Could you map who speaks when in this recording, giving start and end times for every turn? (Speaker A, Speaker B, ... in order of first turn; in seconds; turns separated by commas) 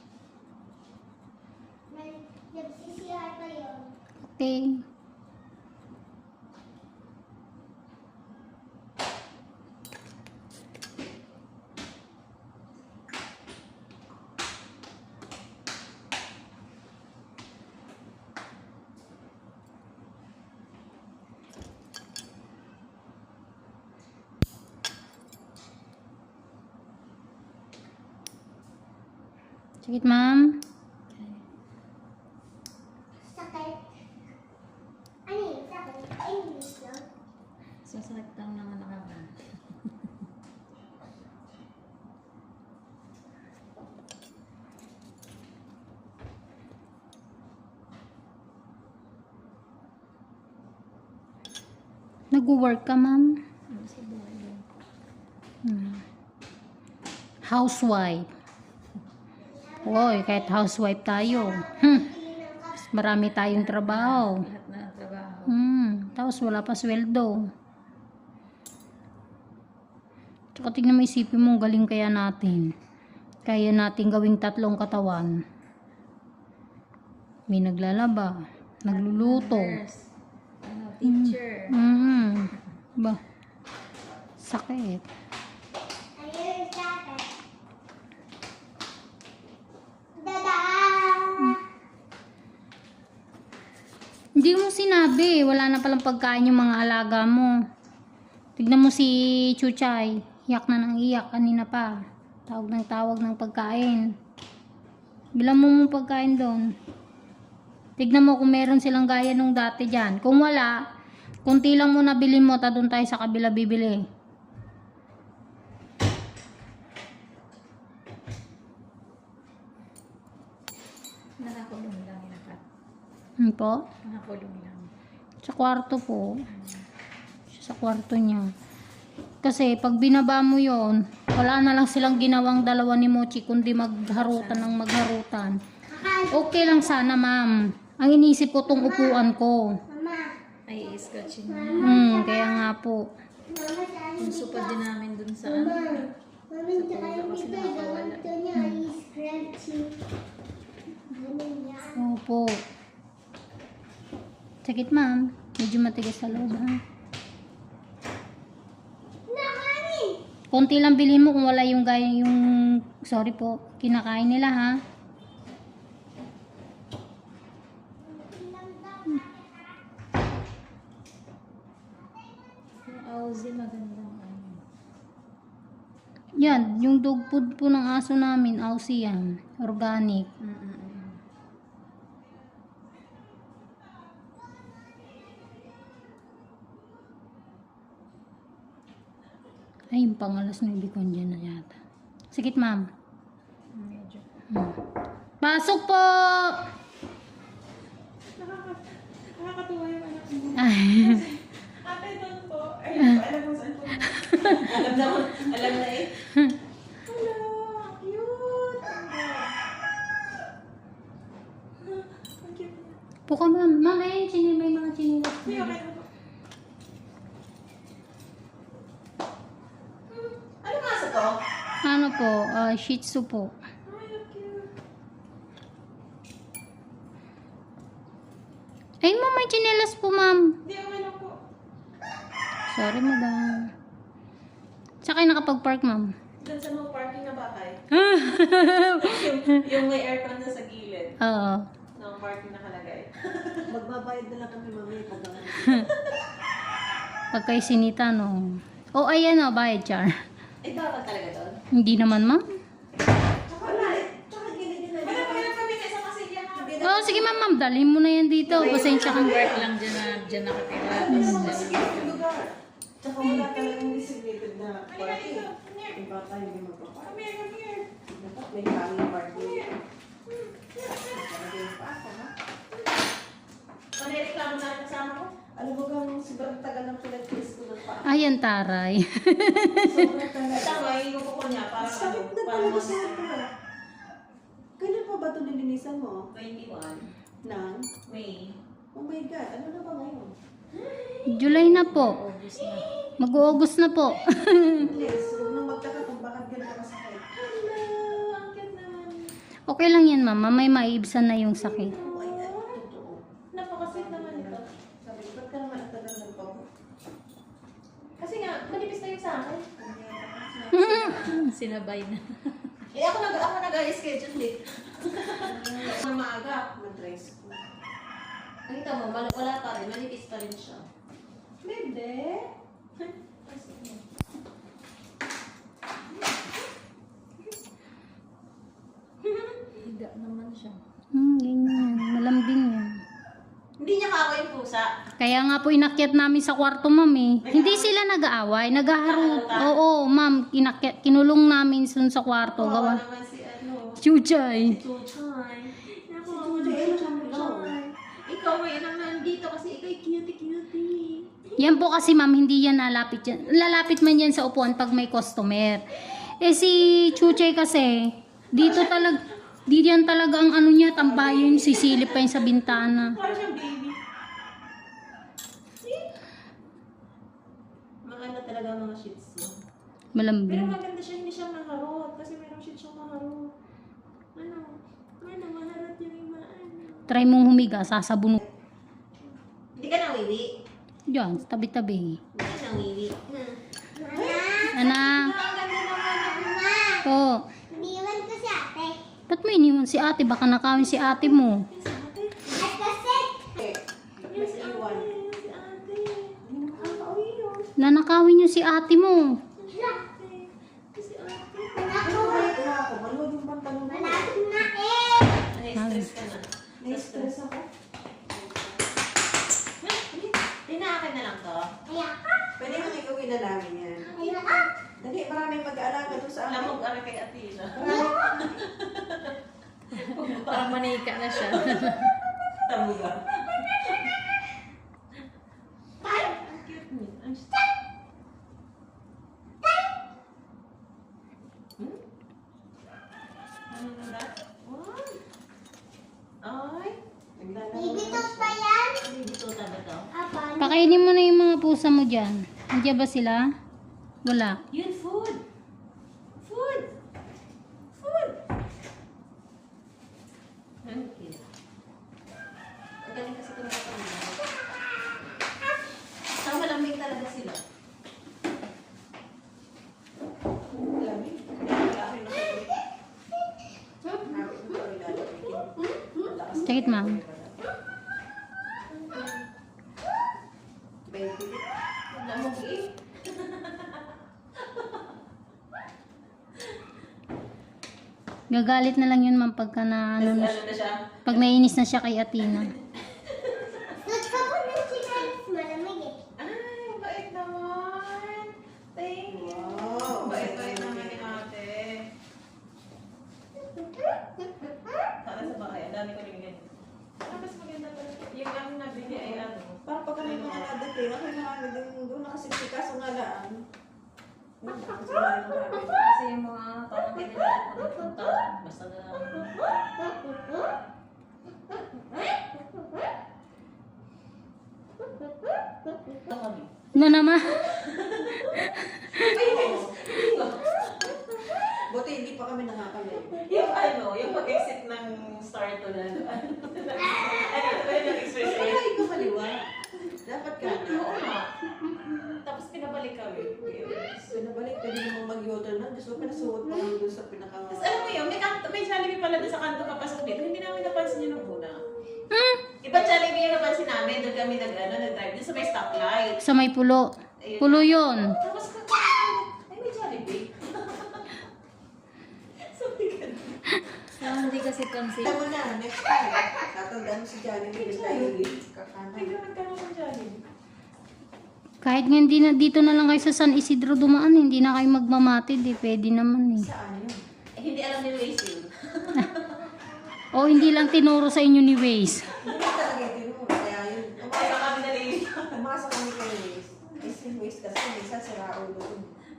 Speaker A: 1.9-3.9, Speaker B: 4.2-4.8, Speaker B: 29.8-30.6, Speaker C: 31.1-31.4, Speaker A: 33.2-33.8, Speaker A: 35.3-37.0, Speaker C: 37.8-39.4, Speaker B: 52.3-53.4, Speaker C: 53.7-54.7, Speaker B: 55.6-56.0, Speaker B: 57.5-58.3, Speaker A: 59.4-60.6, Speaker B: 59.8-62.1, Speaker A: 61.2-63.0, Speaker B: 62.9-64.5, Speaker C: 63.5-65.5, Speaker B: 65.5-67.5, Speaker B: 70.5-72.7, Speaker B: 73.4-75.3, Speaker B: 77.5-79.8, Speaker C: 78.9-80.1, Speaker C: 80.6-81.8, Speaker B: 81.0-83.2, Speaker B: 84.4-85.0, Speaker A: 86.2-87.3, Speaker A: 90.2-91.6, Speaker B: 94.4-97.5, Speaker B: 98.6-104.1, Speaker B: 105.4-106.7, Speaker B: 108.0-110.8, Speaker B: 111.4-114.0, Speaker C: 121.4-122.6, Speaker B: 123.4-123.8, Speaker C: 124.0-124.9, Speaker B: 125.4-126.4, Speaker C: 126.5-126.9, Speaker B: 127.5-128.5, Speaker B: 129.4-135.6, Speaker C: 134.1-134.8, Speaker A: 135.9-137.1, Speaker B: 136.3-139.8, Speaker A: 138.7-139.3, Speaker A: 139.9-142.7, Speaker C: 140.7-142.1, Speaker B: 141.8-143.1, Speaker A: 143.5-144.9, Speaker C: 144.2-146.1, Speaker A: 145.4-150.0, Speaker C: 146.7-148.3, Speaker B: 148.5-148.8, Speaker A: 151.1-152.1, Speaker B: 152.0-152.6, Speaker B: 154.6-156.8, Speaker C: 156.3-156.7, Speaker A: 159.3-160.2, Speaker B: 160.5-164.8, Speaker A: 168.0-169.8, Speaker C: 172.8-174.6, Speaker B: 176.4-180.3, Speaker C: 180.4-181.2, Speaker B: 189.9-191.8, Speaker B: 192.3-192.9, Speaker C: 193.7-194.3, Speaker B: 194.5-194.8, Speaker B: 195.4-196.6, Speaker D: 198.4-203.7, Speaker B: 200.6-201.2, Speaker E: 203.3-204.1, Speaker B: 204.3-204.7, Speaker D: 204.3-206.3, Speaker D: 207.1-209.6, Speaker D: 211.9-213.0, Speaker B: 213.3-215.8, Speaker D: 215.4-216.1, Speaker D: 220.1-221.4, Speaker B: 221.8-223.5, Speaker D: 223.9-224.7, Speaker B: 229.0-230.6, Speaker D: 230.7-231.4, Speaker B: 232.7-233.7, Speaker B: 235.0-236.1, Speaker D: 236.4-238.0, Speaker B: 238.0-239.3, Speaker D: 239.0-241.1, Speaker B: 241.2-241.7, Speaker D: 242.0-243.7, Speaker E: 243.7-245.8, Speaker D: 245.8-246.1, Speaker B: 247.3-250.2, Speaker D: 250.6-251.6, Speaker B: 251.8-252.4, Speaker E: 253.5-255.6, Speaker D: 253.5-254.2, Speaker D: 255.0-256.8, Speaker E: 256.5-257.4, Speaker B: 256.8-259.4, Speaker D: 258.5-259.7, Speaker E: 258.6-259.7, Speaker C: 258.6-262.2, Speaker E: 260.8-267.2, Speaker B: 261.1-261.5, Speaker D: 263.2-264.1, Speaker D: 264.9-266.0, Speaker D: 267.1-267.9, Speaker E: 268.1-269.7, Speaker D: 269.3-270.9, Speaker E: 270.8-272.3, Speaker D: 274.0-275.3, Speaker E: 275.6-278.3, Speaker B: 278.1-280.1, Speaker E: 279.8-280.9, Speaker D: 280.5-283.3, Speaker E: 281.8-283.5, Speaker E: 284.8-286.2, Speaker D: 286.3-287.1, Speaker E: 287.4-287.9, Speaker D: 288.1-288.6, Speaker E: 288.9-290.3, Speaker D: 290.7-291.6, Speaker B: 291.3-292.2, Speaker C: 291.4-293.1, Speaker D: 292.8-293.1, Speaker B: 293.2-294.9, Speaker E: 294.8-297.3, Speaker D: 294.8-295.9, Speaker D: 297.3-299.3, Speaker B: 299.7-302.0, Speaker D: 301.8-302.8, Speaker E: 301.9-303.2, Speaker D: 303.5-304.7, Speaker E: 303.8-306.6, Speaker D: 308.2-309.8, Speaker E: 309.8-311.4, Speaker B: 310.7-311.4, Speaker C: 311.4-312.8, Speaker D: 312.9-316.7, Speaker E: 315.4-316.0, Speaker E: 316.6-317.6, Speaker D: 318.7-320.9, Speaker D: 321.6-322.4, Speaker D: 323.0-324.0, Speaker D: 329.2-329.8, Speaker C: 329.8-330.8, Speaker B: 331.1-332.9, Speaker D: 333.8-334.9, Speaker B: 335.2-343.0, Speaker D: 337.4-337.9, Speaker D: 339.0-339.8, Speaker D: 342.4-344.0, Speaker B: 344.0-344.8, Speaker D: 344.6-351.6, Speaker E: 346.2-347.8, Speaker B: 351.6-363.2, Speaker D: 358.6-358.8, Speaker D: 361.0-364.0, Speaker D: 365.8-366.1, Speaker D: 368.1-369.5, Speaker B: 370.1-370.8, Speaker D: 370.5-373.5, Speaker D: 374.4-377.2, Speaker B: 377.1-378.4, Speaker D: 379.8-380.5, Speaker B: 381.1-382.2, Speaker D: 382.3-383.6, Speaker A: 384.0-384.9, Speaker D: 384.1-386.6, Speaker B: 384.8-385.3, Speaker A: 386.2-387.1, Speaker B: 387.1-387.4, Speaker A: 387.7-389.0, Speaker B: 389.3-391.7, Speaker D: 391.7-392.7, Speaker A: 392.6-393.5, Speaker E: 393.6-395.1, Speaker D: 394.3-397.7, Speaker E: 396.4-397.2, Speaker B: 397.8-399.4, Speaker D: 399.6-402.2, Speaker A: 399.7-400.0, Speaker A: 401.8-402.7, Speaker E: 402.0-404.4, Speaker A: 403.9-405.4, Speaker D: 405.5-407.3, Speaker B: 405.8-406.1, Speaker E: 406.8-407.7, Speaker E: 408.3-408.8, Speaker D: 409.8-411.7, Speaker A: 411.9-412.4, Speaker E: 412.6-414.1, Speaker A: 414.1-414.7, Speaker D: 414.2-414.5, Speaker E: 415.0-416.8, Speaker D: 416.4-419.4, Speaker E: 417.7-418.6, Speaker A: 417.8-418.4, Speaker C: 419.9-422.2, Speaker D: 419.9-421.9, Speaker D: 422.6-424.1, Speaker D: 426.0-427.6, Speaker D: 433.7-435.2, Speaker D: 436.4-437.0, Speaker E: 437.4-438.6, Speaker A: 437.7-439.1, Speaker D: 439.0-440.1, Speaker A: 440.1-441.0, Speaker B: 440.6-443.5, Speaker B: 444.2-444.6, Speaker D: 444.7-445.4, Speaker D: 446.4-446.9, Speaker D: 448.0-448.4, Speaker D: 450.8-451.4, Speaker D: 453.0-454.5, Speaker D: 456.3-457.6, Speaker E: 460.8-462.7, Speaker D: 461.6-462.6, Speaker E: 464.2-467.6, Speaker B: 466.6-467.2, Speaker D: 468.9-469.4, Speaker E: 471.1-471.6, Speaker D: 472.1-474.0, Speaker D: 474.6-474.9, Speaker B: 478.5-480.6, Speaker D: 480.2-481.0, Speaker B: 481.2-482.7, Speaker D: 482.5-484.0, Speaker A: 484.1-486.2, Speaker D: 486.4-492.1, Speaker E: 489.3-491.4, Speaker D: 495.2-496.6, Speaker D: 497.2-500.7, Speaker E: 499.1-503.6, Speaker E: 504.6-506.1, Speaker D: 505.8-509.8, Speaker D: 516.2-516.8, Speaker B: 516.9-517.6, Speaker D: 517.6-521.8, Speaker E: 519.5-519.9, Speaker E: 521.9-523.5, Speaker D: 523.3-529.1, Speaker E: 528.4-529.7, Speaker E: 530.2-531.1, Speaker D: 530.6-531.5, Speaker D: 532.3-534.2, Speaker E: 534.2-538.3, Speaker D: 537.7-541.8, Speaker B: 542.3-542.6, Speaker D: 542.8-546.4, Speaker B: 546.4-548.4, Speaker D: 547.4-551.3, Speaker D: 552.6-553.8, Speaker C: 554.1-555.4, Speaker E: 555.2-559.4, Speaker D: 557.7-558.4, Speaker D: 559.1-560.4, Speaker B: 561.8-566.7, Speaker E: 566.6-567.2, Speaker D: 567.6-569.6, Speaker B: 570.3-572.3, Speaker E: 572.4-574.8, Speaker D: 574.2-575.4, Speaker E: 575.5-579.1